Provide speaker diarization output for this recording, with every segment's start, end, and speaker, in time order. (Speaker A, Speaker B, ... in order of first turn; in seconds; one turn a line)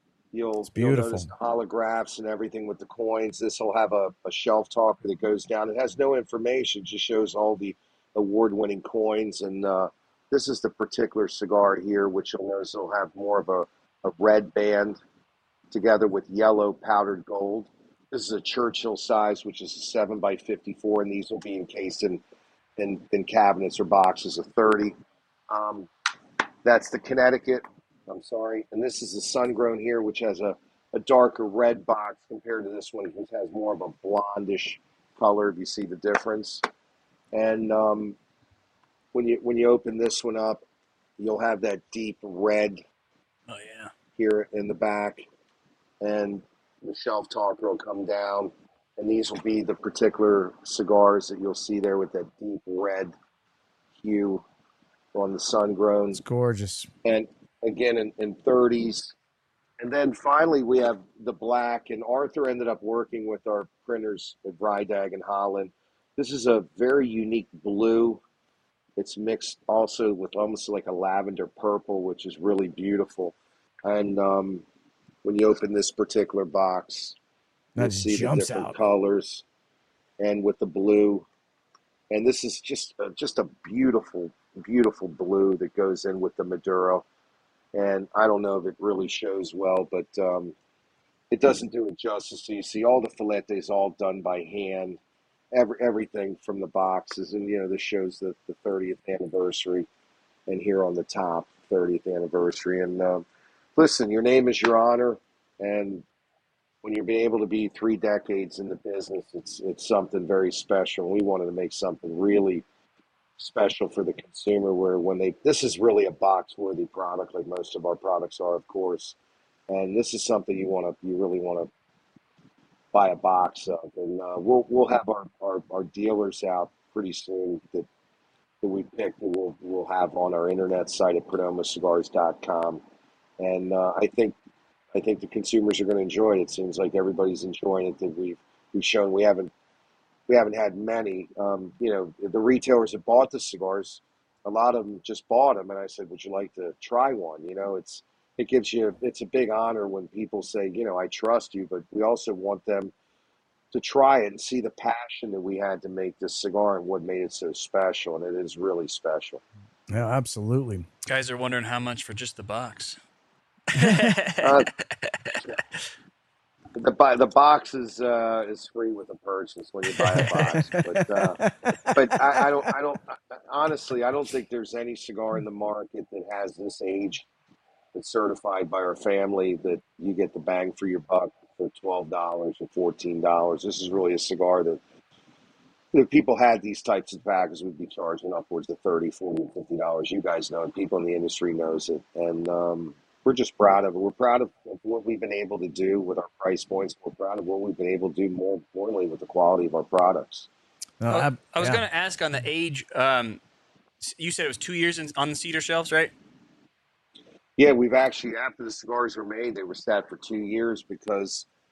Speaker A: 0.3-15.0
Speaker B: 0.7-1.3
Speaker A: 15.7-22.2
Speaker A: 22.8-24.9
Speaker A: 25.5-25.9
Speaker A: 26.6-36.6
Speaker A: 37.3-38.1
Speaker A: 39.1-40.6
Speaker A: 41.2-42.8
Speaker C: 43.5-43.9
Speaker A: 44.2-45.2
Speaker A: 46.0-53.1
Speaker A: 54.0-54.4
Speaker A: 55.1-56.2
Speaker B: 56.1-56.9
Speaker A: 57.0-59.1
Speaker A: 59.8-68.2
Speaker A: 69.0-74.6
Speaker A: 75.2-77.2
Speaker B: 77.8-78.7
Speaker A: 77.8-79.4
Speaker A: 80.2-81.2
Speaker A: 82.1-87.0
Speaker A: 87.7-90.5
Speaker A: 91.3-95.0
Speaker A: 95.5-99.9
Speaker A: 100.5-103.2
Speaker A: 103.8-106.0
Speaker A: 106.8-112.6
Speaker A: 113.4-119.2
Speaker A: 119.7-121.7
Speaker A: 122.9-127.9
Speaker A: 128.6-132.8
Speaker A: 133.4-134.3
Speaker A: 134.9-139.5
Speaker A: 140.3-152.9
Speaker A: 153.7-159.4
Speaker B: 159.9-160.9
Speaker C: 161.1-163.0
Speaker C: 163.7-165.3
Speaker B: 163.7-164.2
Speaker A: 164.4-164.7
Speaker A: 166.7-177.3
Speaker C: 170.0-170.5
Speaker B: 170.7-171.9
Speaker A: 177.9-184.8
Speaker A: 185.9-200.5
Speaker B: 201.0-201.8
Speaker C: 201.1-203.4
Speaker C: 204.0-206.1
Speaker A: 207.6-211.5